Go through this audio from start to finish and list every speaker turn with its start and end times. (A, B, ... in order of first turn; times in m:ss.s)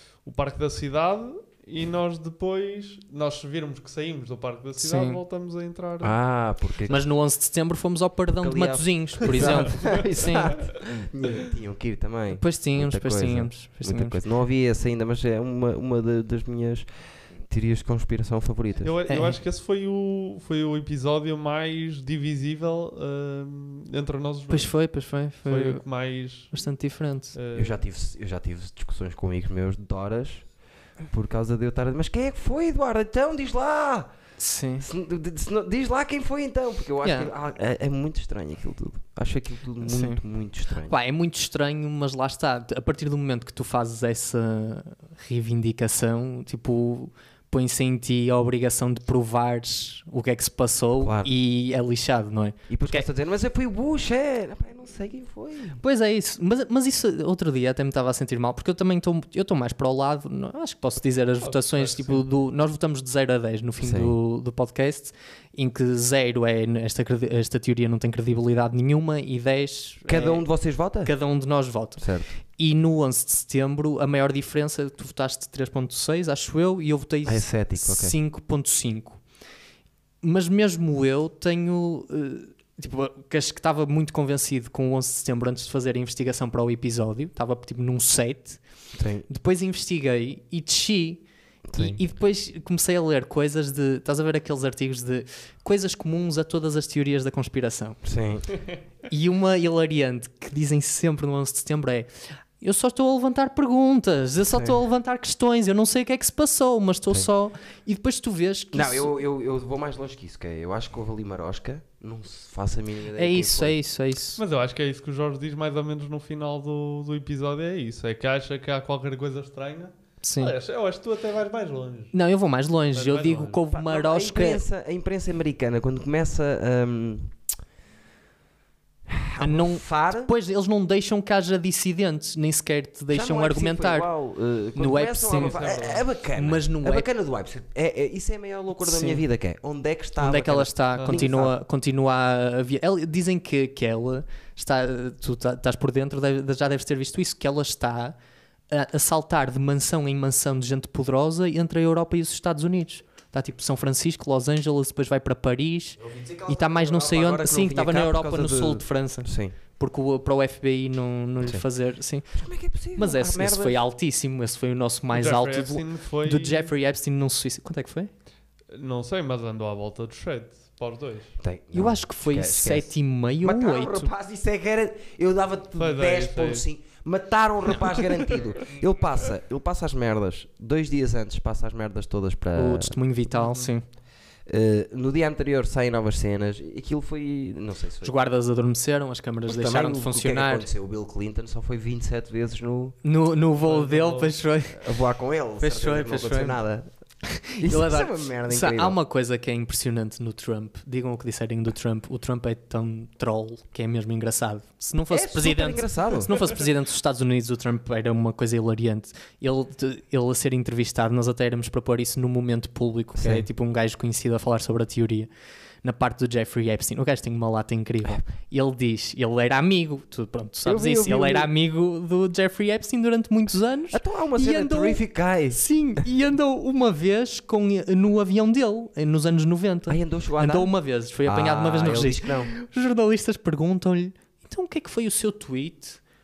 0:00.2-0:06.3 A
0:04.8-0:05.2 B
0:06.0-0:07.1 C
0:06.9-0:10.6 B
0:08.4-0:19.0 C
0:09.4-0:09.9 A
0:12.3-0:14.2 B
0:18.8-0:24.9 A
0:19.1-0:19.4 B
0:24.5-0:25.9 B
0:25.4-0:26.6 A
0:26.5-0:27.4 B
0:27.3-0:27.8 A
0:27.5-0:30.5 C
0:31.1-0:34.1 C
0:34.4-0:34.8 B
0:34.8-0:41.0 C
0:37.0-0:37.3 B
0:39.8-0:40.2 B
0:40.8-0:53.1 B
0:51.0-0:51.3 C
0:52.7-0:55.8 C
0:55.8-1:10.5 B
1:01.4-1:02.2 A
1:03.8-1:04.2 C
1:10.1-1:11.1 C
1:11.0-1:19.2 B
1:12.0-1:12.3 C
1:17.2-1:18.2 C
1:20.2-1:28.6 B
1:29.0-1:29.3 C
1:29.2-1:38.0 B
1:31.7-1:32.0 C
1:38.0-1:38.5 C
1:39.1-1:49.1 B
1:44.5-1:44.8 C
1:48.7-1:53.8 C
1:53.2-1:54.4 B
1:54.4-2:02.2 A
2:00.2-2:00.5 B
2:02.1-2:04.6 B
2:02.9-2:03.6 A
2:03.7-2:07.4 C
2:09.1-2:10.3 C
2:09.4-2:14.1 B
2:13.1-2:21.6 C
2:14.8-2:15.6 B
2:15.3-2:16.1 A
2:16.4-2:17.1 B
2:18.8-2:19.2 B
2:20.2-2:28.2 B
2:21.0-2:21.2 A
2:28.7-2:48.1 B
2:36.0-2:39.6 C
2:41.4-2:41.7 C
2:42.2-2:43.8 C
2:45.1-2:46.7 A
2:48.7-2:51.4 A
2:51.4-3:03.0 C
2:51.7-2:54.1 B
2:55.8-2:56.6 A
3:02.6-3:03.9 B
3:03.3-3:03.7 A
3:04.4-3:08.2 C
3:08.0-3:10.7 B
3:09.5-3:13.0 C
3:13.0-3:14.9 B
3:13.6-3:14.4 A
3:14.7-3:16.9 C
3:15.6-3:16.6 B
3:17.5-3:35.3 B
3:17.6-3:19.0 C
3:25.1-3:26.3 C
3:33.2-3:33.5 C
3:35.8-3:56.0 B
3:40.6-3:41.5 C
3:43.9-3:45.6 C
3:49.9-3:52.5 C